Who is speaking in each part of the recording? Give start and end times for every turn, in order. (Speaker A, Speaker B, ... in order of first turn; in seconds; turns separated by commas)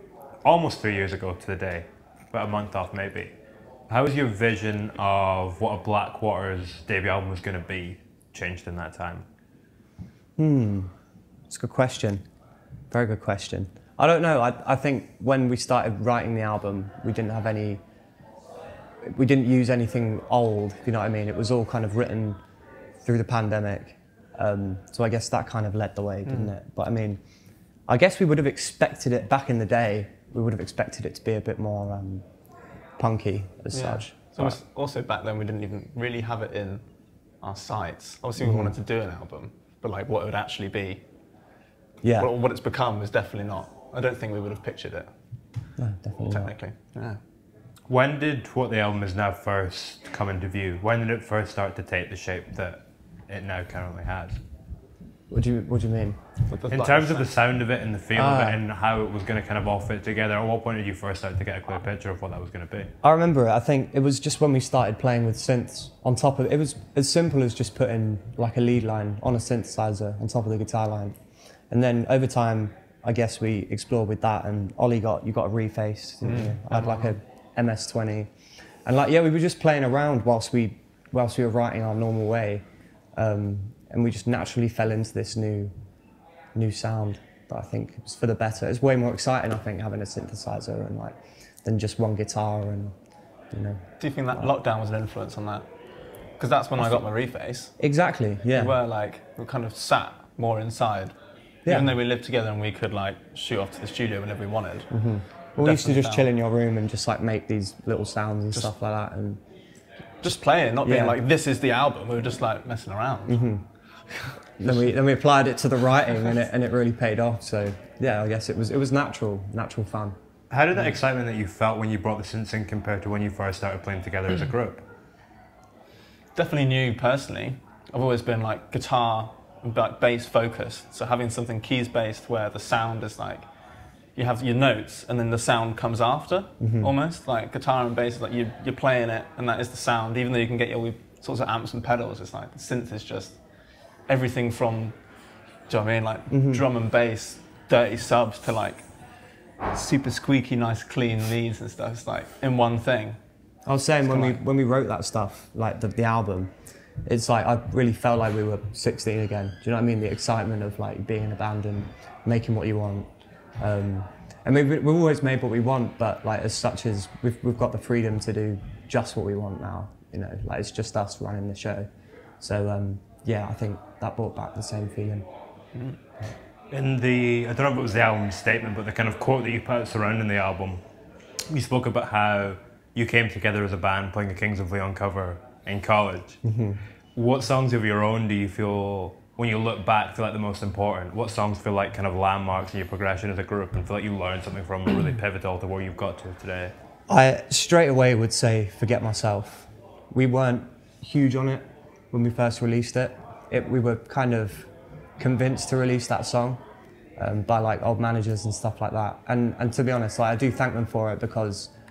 Speaker A: 0.4-3.3, Speaker A: 3.9-9.2, Speaker B: 10.4-10.9, Speaker B: 11.5-12.2, Speaker B: 12.9-17.8, Speaker B: 19.0-22.4, Speaker B: 23.0-27.2, Speaker C: 26.2-26.5, Speaker B: 27.9-32.2, Speaker B: 33.0-34.6, Speaker C: 33.7-36.8, Speaker C: 37.4-41.0, Speaker B: 38.4-38.7, Speaker B: 42.0-42.3, Speaker C: 42.1-45.1, Speaker B: 45.8-46.5, Speaker C: 46.2-47.2, Speaker A: 47.9-54.4, Speaker B: 55.3-56.2, Speaker C: 56.5-57.3, Speaker A: 56.7-62.9, Speaker B: 58.1-58.6, Speaker B: 63.0-71.2, Speaker B: 71.7-78.3, Speaker C: 76.2-77.1, Speaker B: 78.8-82.6, Speaker B: 83.2-85.7, Speaker B: 86.5-92.9, Speaker B: 93.5-93.8, Speaker C: 94.0-95.7, Speaker C: 96.4-97.7, Speaker B: 97.8-98.8, Speaker C: 98.5-101.1, Speaker B: 101.6-102.0, Speaker C: 101.7-104.9, Speaker B: 104.9-109.4, Speaker C: 105.5-106.3, Speaker C: 110.2-113.5, Speaker B: 110.8-111.2, Speaker B: 113.3-113.6, Speaker B: 114.6-120.2, Speaker C: 114.6-114.9, Speaker A: 120.5-124.8, Speaker C: 126.3-133.4, Speaker C: 134.1-143.4, Speaker B: 136.6-136.9, Speaker C: 144.1-145.0, Speaker C: 145.7-148.8, Speaker B: 146.3-146.7, Speaker C: 149.7-153.2, Speaker B: 153.7-156.5, Speaker C: 154.0-154.4, Speaker B: 157.1-163.1, Speaker B: 163.6-171.9, Speaker B: 172.4-175.2, Speaker A: 176.7-180.8, Speaker A: 181.5-186.4, Speaker B: 186.4-186.8, Speaker A: 187.1-196.7, Speaker B: 197.1-206.6, Speaker B: 207.2-211.7